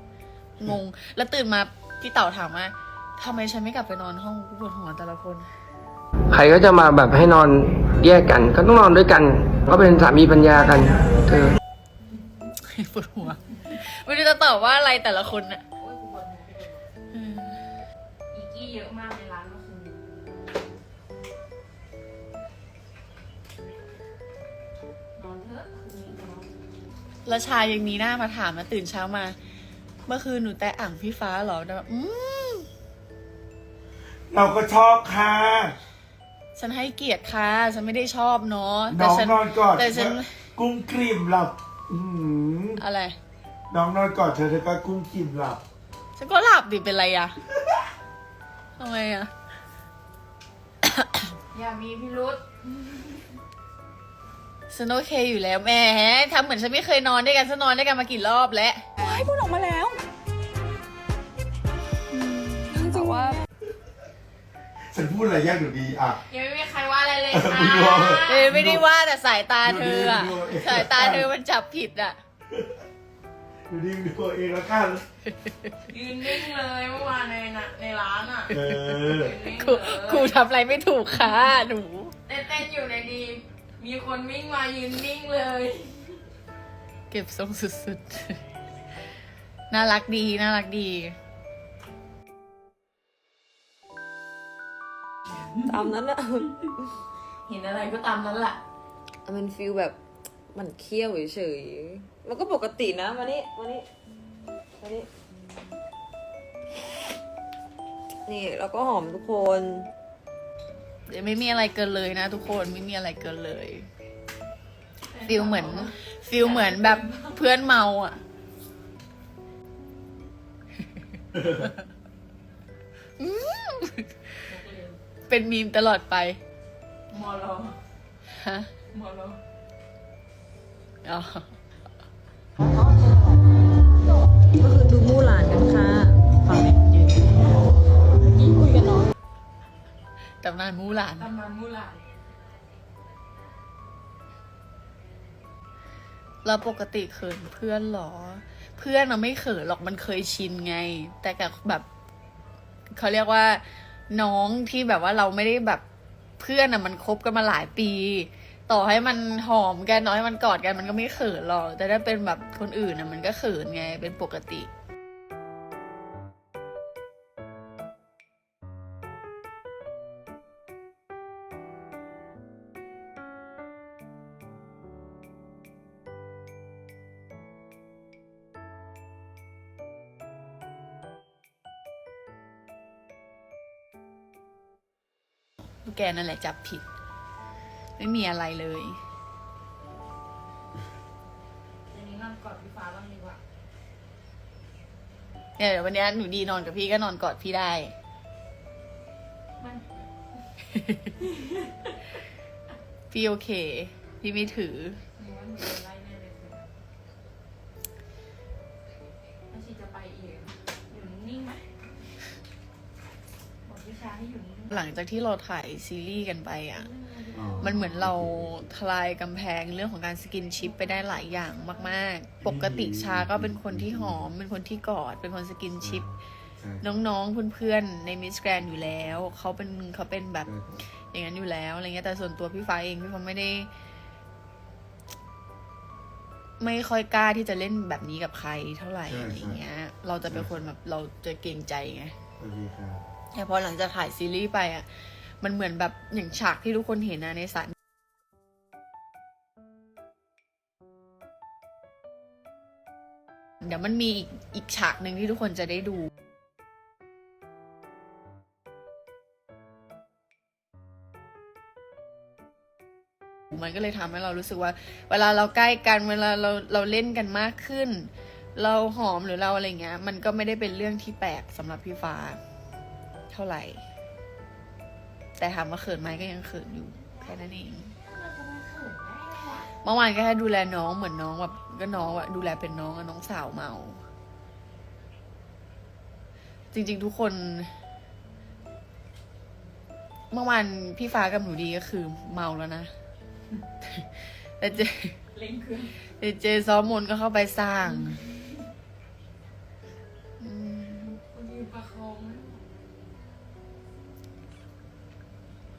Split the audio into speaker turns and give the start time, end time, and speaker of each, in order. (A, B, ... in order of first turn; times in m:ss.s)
0:00.6-0:05.5 A
0:06.3-0:11.6 B
0:12.6-0:15.6 A
0:15.8-0:16.8 C
0:17.1-0:17.6 A
0:18.3-0:20.0 C
0:25.2-0:26.5 C
0:27.2-0:29.4 A
0:30.0-0:32.7 A
0:34.3-0:35.8 D
0:36.6-0:40.4 A
0:38.9-0:42.8 D
0:42.8-0:43.2 A
0:43.7-0:45.6 D
0:46.2-0:47.4 A
0:48.8-0:49.3 A
0:50.8-0:51.3 A
0:51.5-0:52.4 C
0:54.7-0:58.8 A
0:59.0-1:00.0 E
1:02.6-1:03.4 E
1:04.9-1:06.2 D
1:06.3-1:08.5 C
1:07.3-1:08.8 D
1:08.2-1:12.2 A
1:09.6-1:11.3 D
1:13.7-1:15.0 D
1:15.9-1:20.4 C
1:18.5-1:19.4 D
1:19.4-1:22.1 A
1:22.2-1:26.2 C
1:27.1-1:28.4 A
1:29.7-1:31.2 A
1:35.6-1:36.9 E
1:37.5-1:38.6 C
1:39.2-1:40.0 E
1:40.5-1:43.9 E
1:44.8-1:45.1 E
1:48.2-1:49.9 E
1:51.1-1:53.9 A
1:55.1-1:57.3 C
1:55.2-1:58.2 A
2:01.3-2:01.8 A
2:03.2-2:04.2 A
2:04.4-2:05.0 C
2:05.3-2:06.4 A
2:07.1-2:07.8 C
2:08.3-2:08.7 A
2:08.9-2:09.4 C
2:11.0-2:11.5 A
2:14.6-2:16.3 E
2:20.4-2:21.3 A
2:21.2-2:22.0 C
2:26.4-2:31.8 A
2:32.9-2:35.8 A
2:36.4-2:44.7 A
3:05.8-3:06.8 A
3:08.0-3:09.0 A
3:11.9-3:13.4 C
3:15.6-3:17.9 A
3:19.6-3:19.9 C
3:21.2-3:21.9 C
3:23.1-3:25.0 A
3:25.2-3:26.7 C
3:29.5-3:31.6 C
3:33.6-3:34.7 C
3:34.7-3:36.9 A
3:36.8-3:37.9 C
3:37.3-3:38.6 D
3:37.6-3:46.0 A
3:40.6-3:42.0 C
3:42.4-3:44.3 D
3:45.8-3:46.9 D
3:46.8-3:53.7 A
3:50.4-3:50.8 D
3:56.6-4:02.1 A
3:59.0-3:59.6 D
4:00.3-4:00.5 D
4:02.4-4:03.0 D
4:03.3-4:04.9 A
4:05.4-4:07.7 A
4:13.6-4:16.1 A
4:23.5-4:32.4 A
4:33.3-4:33.8 A
4:35.4-4:37.9 A
4:37.9-4:39.7 C
4:39.8-4:44.0 A
4:46.7-4:47.7 A
4:50.3-4:52.9 A
4:53.8-4:55.2 A
4:55.3-4:56.0 C
4:56.1-4:58.2 A
5:00.4-5:01.2 A
5:01.1-5:02.6 C